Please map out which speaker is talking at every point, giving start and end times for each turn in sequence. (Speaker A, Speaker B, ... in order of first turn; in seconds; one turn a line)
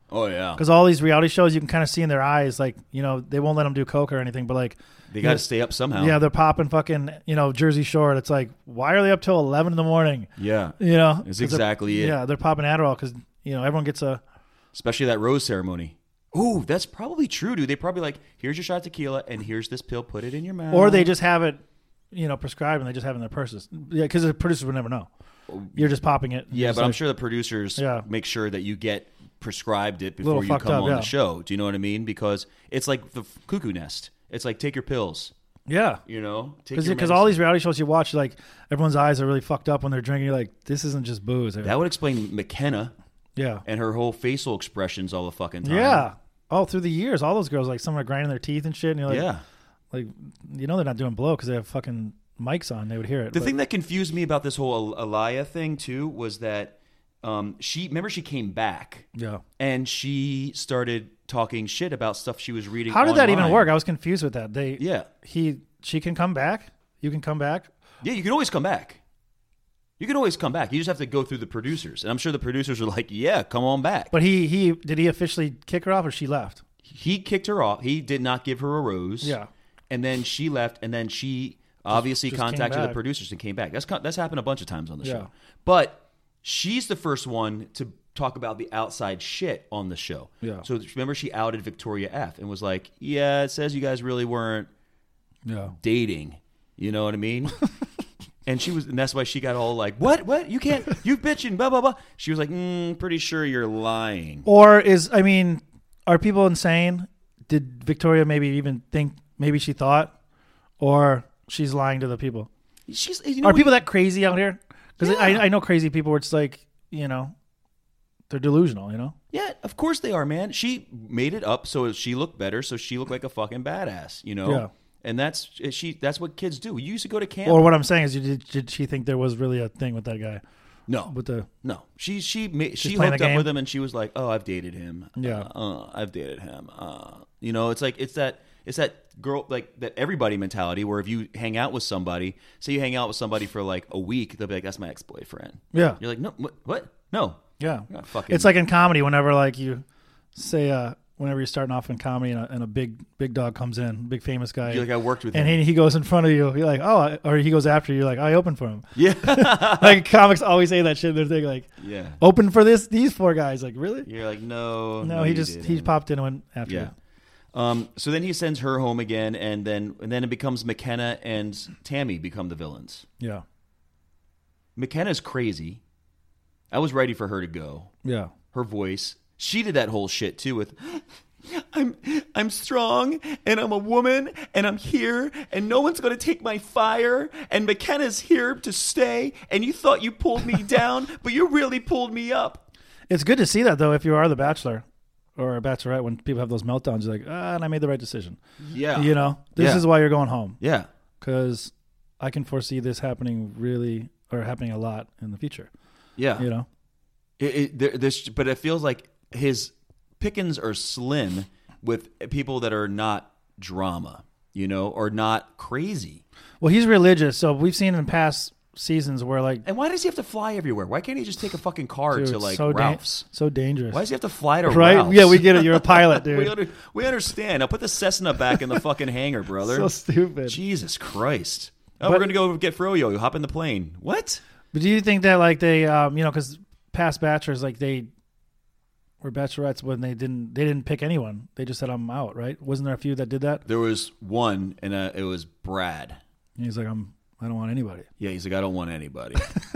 Speaker A: 0.1-0.6
Speaker B: 0.6-14.2
Speaker A: 5.1-6.2
Speaker A: 10.4-12.2
Speaker A: 14.7-21.1
Speaker B: 20.7-25.1
Speaker A: 25.5-25.9
Speaker B: 25.7-27.0
Speaker A: 26.5-35.3
Speaker B: 27.8-28.1
Speaker B: 30.2-31.1
Speaker B: 35.7-36.0
Speaker A: 36.1-37.4
Speaker B: 36.7-41.8
Speaker A: 41.6-42.9
Speaker B: 43.4-43.6
Speaker A: 43.6-46.1
Speaker B: 45.6-49.3
Speaker A: 49.1-49.4
Speaker B: 49.9-53.5
Speaker A: 53.3-59.1
Speaker B: 59.1-59.4
Speaker A: 59.6-63.7
Speaker B: 62.9-67.7
Speaker A: 64.8-65.1
Speaker A: 68.0-69.0
Speaker A: 70.0-74.1
Speaker B: 74.1-76.6
Speaker A: 76.8-79.3
Speaker B: 79.2-79.5
Speaker A: 79.9-94.7
Speaker B: 82.0-83.0
Speaker B: 85.0-85.3
Speaker B: 95.5-95.8
Speaker A: 95.7-97.6
Speaker A: 98.5-104.5
Speaker B: 104.5-110.1
Speaker B: 110.8-112.5
Speaker A: 112.9-113.7
Speaker B: 113.4-117.3
Speaker A: 115.0-115.5
Speaker B: 118.3-119.2
Speaker A: 119.3-127.7
Speaker B: 124.5-124.7
Speaker B: 127.5-130.4
Speaker A: 130.9-148.6
Speaker B: 131.1-131.5
Speaker B: 132.8-133.5
Speaker B: 135.2-135.5
Speaker B: 145.7-146.0
Speaker B: 147.6-149.8
Speaker B: 150.3-161.7
Speaker A: 154.7-155.6
Speaker A: 158.9-160.0
Speaker A: 161.8-162.2
Speaker B: 162.2-164.1
Speaker A: 164.0-165.9
Speaker B: 165.0-166.9
Speaker A: 166.7-166.9
Speaker A: 167.5-173.1
Speaker A: 174.8-175.8
Speaker A: 176.7-177.9
Speaker B: 178.0-178.3
Speaker A: 178.5-192.7
Speaker B: 193.1-194.8
Speaker B: 195.4-198.4
Speaker A: 198.6-199.9
Speaker B: 198.9-200.6
Speaker A: 200.6-200.9
Speaker B: 201.2-205.7
Speaker A: 206.2-206.5
Speaker B: 206.4-206.7
Speaker A: 207.4-216.2
Speaker B: 216.6-219.7
Speaker A: 219.7-223.3
Speaker B: 222.1-224.0
Speaker A: 223.9-229.9
Speaker B: 224.7-226.6
Speaker B: 229.6-230.6
Speaker A: 230.5-234.4
Speaker B: 232.0-232.3
Speaker B: 234.7-238.1
Speaker B: 239.2-243.6
Speaker A: 243.7-246.2
Speaker B: 246.6-248.1
Speaker A: 248.2-249.5